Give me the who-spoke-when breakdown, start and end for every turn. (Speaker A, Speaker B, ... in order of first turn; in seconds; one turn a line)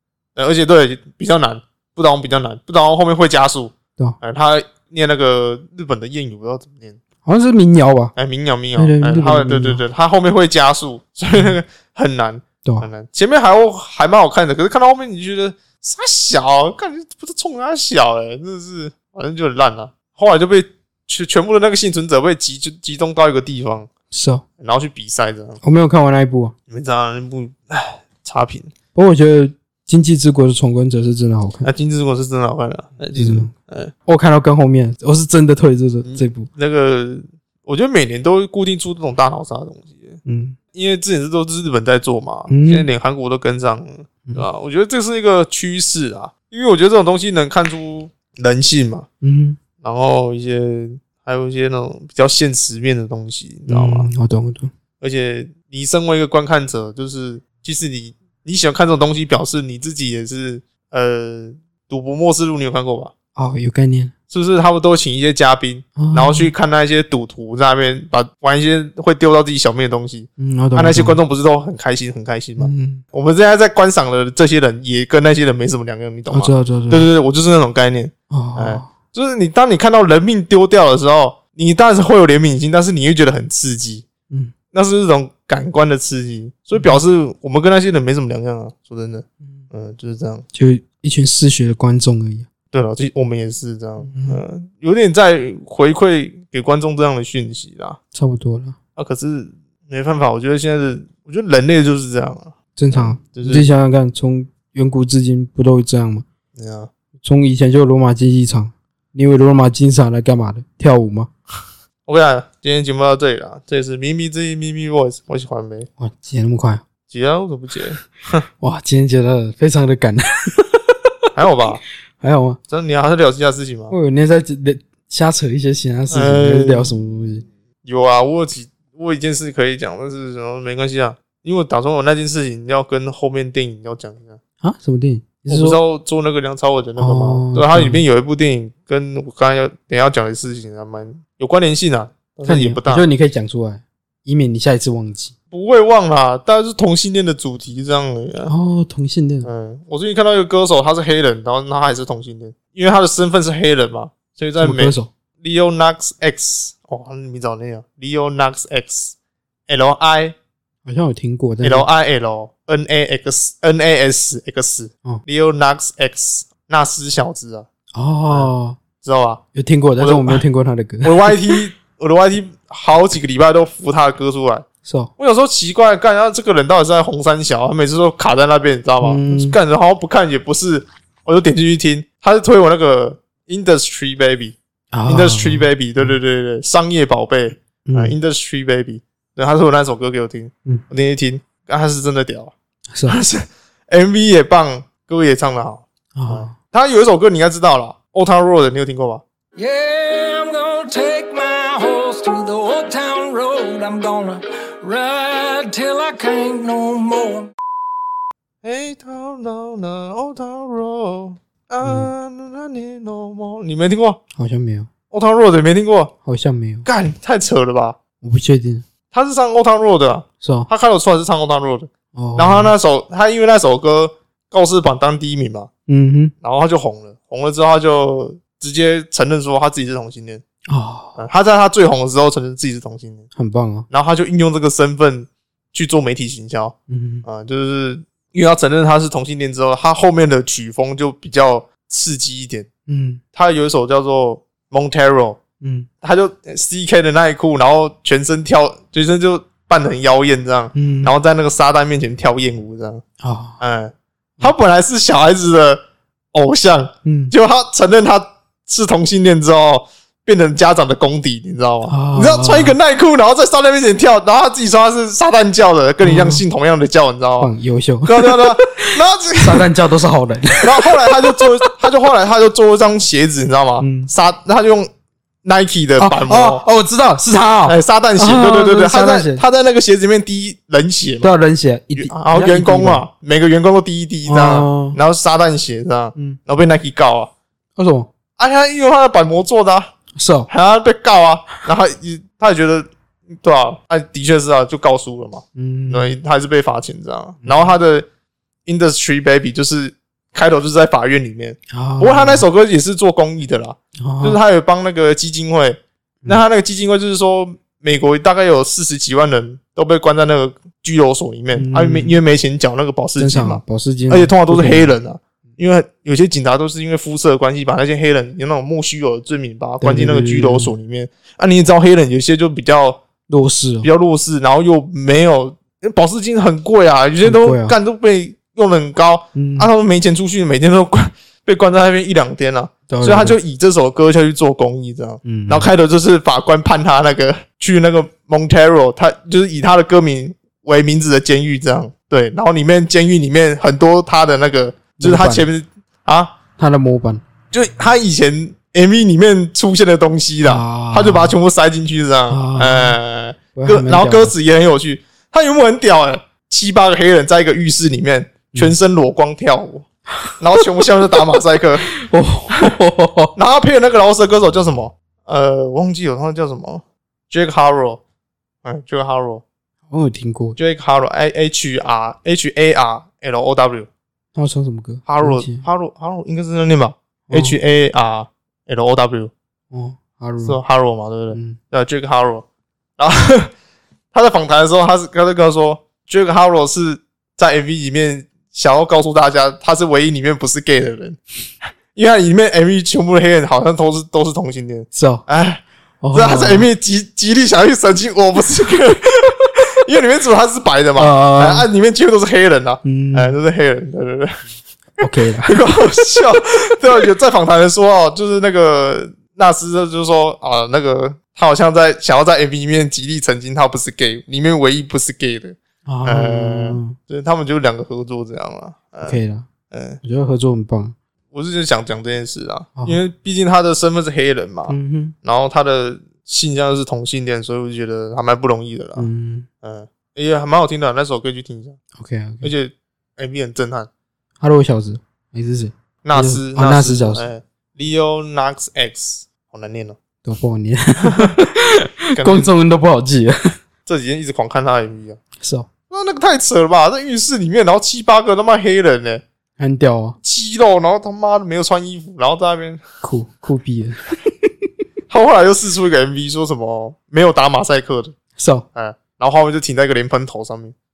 Speaker A: 0.4-7.0
Speaker B: 7.2-8.1
Speaker A: 8.2-23.9
Speaker B: 8.8-9.8
Speaker B: 24.1-24.4
Speaker A: 24.6-25.6
Speaker B: 25.6-26.6
Speaker A: 26.7-28.7
Speaker B: 28.9-31.7
Speaker A: 31.6-33.9
Speaker B: 33.1-33.5
Speaker B: 34.1-36.5
Speaker A: 36.0-40.2
Speaker B: 40.3-40.6
Speaker A: 40.7-49.1
Speaker B: 42.5-42.9
Speaker B: 49.2-49.6
Speaker A: 49.8-54.1
Speaker B: 53.7-54.7
Speaker A: 55.0-63.1
Speaker B: 63.4-64.1
Speaker A: 64.3-84.0
Speaker B: 66.0-66.5
Speaker B: 70.4-71.2
Speaker B: 72.6-73.0
Speaker B: 76.3-77.1
Speaker B: 78.3-78.9
Speaker A: 84.7-90.5
Speaker B: 90.5-92.5
Speaker A: 92.7-98.0
Speaker B: 94.1-94.4
Speaker B: 98.1-98.8
Speaker A: 99.0-103.7
Speaker B: 102.8-106.2
Speaker A: 106.6-106.9
Speaker B: 107.2-111.3
Speaker A: 112.1-115.9
Speaker B: 116.0-116.8
Speaker A: 117.1-118.5
Speaker B: 118.6-121.1
Speaker A: 121.3-121.8
Speaker B: 122.2-122.6
Speaker A: 122.7-124.0
Speaker B: 123.9-127.5
Speaker A: 126.1-126.9
Speaker A: 127.8-134.4
Speaker B: 134.6-135.8
Speaker A: 135.5-143.1
Speaker B: 137.0-138.0
Speaker B: 142.5-145.3
Speaker A: 145.5-148.5
Speaker B: 148.5-149.5
Speaker A: 149.4-159.2
Speaker B: 154.6-155.1
Speaker A: 159.7-160.3
Speaker B: 160.8-161.9
Speaker A: 161.6-167.7
Speaker B: 167.9-168.8
Speaker A: 168.3-169.4
Speaker B: 169.5-171.6
Speaker A: 170.0-170.4
Speaker A: 171.0-174.7
Speaker B: 174.8-175.1
Speaker A: 175.2-192.5
Speaker B: 179.0-179.6
Speaker B: 184.9-186.2
Speaker B: 187.9-188.2
Speaker B: 192.9-193.2
Speaker A: 193.1-199.2
Speaker B: 196.2-196.6
Speaker C: 199.6-207.5
Speaker A: 208.6-214.2
Speaker B: 211.8-212.1
Speaker B: 214.3-214.9
Speaker A: 215.1-216.1
Speaker B: 216.2-216.8
Speaker A: 216.8-218.0
Speaker B: 218.2-218.8
Speaker A: 219.1-225.7
Speaker B: 220.4-220.7
Speaker B: 222.2-222.7
Speaker B: 225.9-226.3
Speaker A: 226.4-230.4
Speaker B: 230.7-231.2
Speaker A: 231.2-233.3
Speaker B: 233.4-233.9
Speaker A: 233.9-242.7
Speaker B: 236.9-237.2
Speaker B: 242.9-243.2
Speaker A: 243.3-245.4
Speaker B: 245.6-245.9
Speaker A: 246.0-253.0
Speaker B: 250.8-251.1
Speaker B: 253.2-253.6
Speaker A: 253.6-255.8
Speaker A: 256.3-267.5
Speaker B: 257.1-257.3
Speaker B: 261.9-262.8
Speaker B: 266.0-266.4
Speaker B: 267.4-271.4
Speaker A: 268.1-269.7
Speaker A: 270.6-274.9
Speaker B: 273.8-274.1
Speaker A: 275.4-276.6
Speaker B: 276.0-279.4
Speaker A: 277.7-281.3
Speaker B: 281.2-283.0
Speaker A: 282.0-287.3
Speaker B: 284.3-285.0
Speaker B: 287.8-288.1
Speaker A: 288.4-289.9
Speaker B: 290.2-290.5
Speaker A: 290.5-298.1
Speaker B: 295.6-296.2
Speaker B: 297.4-297.7
Speaker A: 298.7-323.0
Speaker B: 301.7-302.5
Speaker B: 304.0-304.4
Speaker B: 311.5-312.1
Speaker B: 313.2-314.9
Speaker B: 319.8-320.7
Speaker B: 323.3-323.9
Speaker A: 323.8-346.4
Speaker B: 327.2-327.8
Speaker B: 329.4-329.7
Speaker B: 332.9-333.4
Speaker B: 335.2-335.7
Speaker B: 345.0-345.5
Speaker B: 346.6-347.2
Speaker A: 347.5-359.9
Speaker B: 350.4-351.4
Speaker B: 352.3-353.0
Speaker B: 353.6-354.3
Speaker B: 360.2-360.6
Speaker A: 360.4-361.9
Speaker B: 361.9-363.4
Speaker A: 363.4-368.0
Speaker A: 368.6-369.4
Speaker B: 369.9-370.6
Speaker A: 370.6-373.9
Speaker B: 374.4-375.6
Speaker A: 375.1-379.3
Speaker B: 377.3-377.6
Speaker B: 379.7-380.6
Speaker A: 380.4-382.4
Speaker B: 381.3-381.6
Speaker A: 383.0-383.5
Speaker A: 384.1-391.2
Speaker A: 391.9-404.4
Speaker B: 394.9-395.2
Speaker B: 396.0-396.7
Speaker B: 401.0-401.7
Speaker B: 402.8-403.4
Speaker B: 405.0-405.6
Speaker A: 405.4-419.2
Speaker B: 415.9-417.0
Speaker B: 419.0-419.5
Speaker A: 419.7-420.0
Speaker B: 420.0-420.9
Speaker A: 421.3-429.1
Speaker B: 424.7-425.1
Speaker B: 429.0-429.5
Speaker A: 429.6-431.8
Speaker B: 432.0-432.5
Speaker A: 432.4-433.9
Speaker B: 434.4-437.3
Speaker A: 436.0-440.0
Speaker B: 440.2-443.5
Speaker A: 442.1-442.5
Speaker A: 443.9-445.2
Speaker B: 445.4-445.7
Speaker A: 445.9-449.2
Speaker B: 449.6-450.2
Speaker A: 450.2-452.8
Speaker B: 453.0-454.5
Speaker A: 455.1-458.1
Speaker B: 458.4-458.6
Speaker A: 458.7-460.7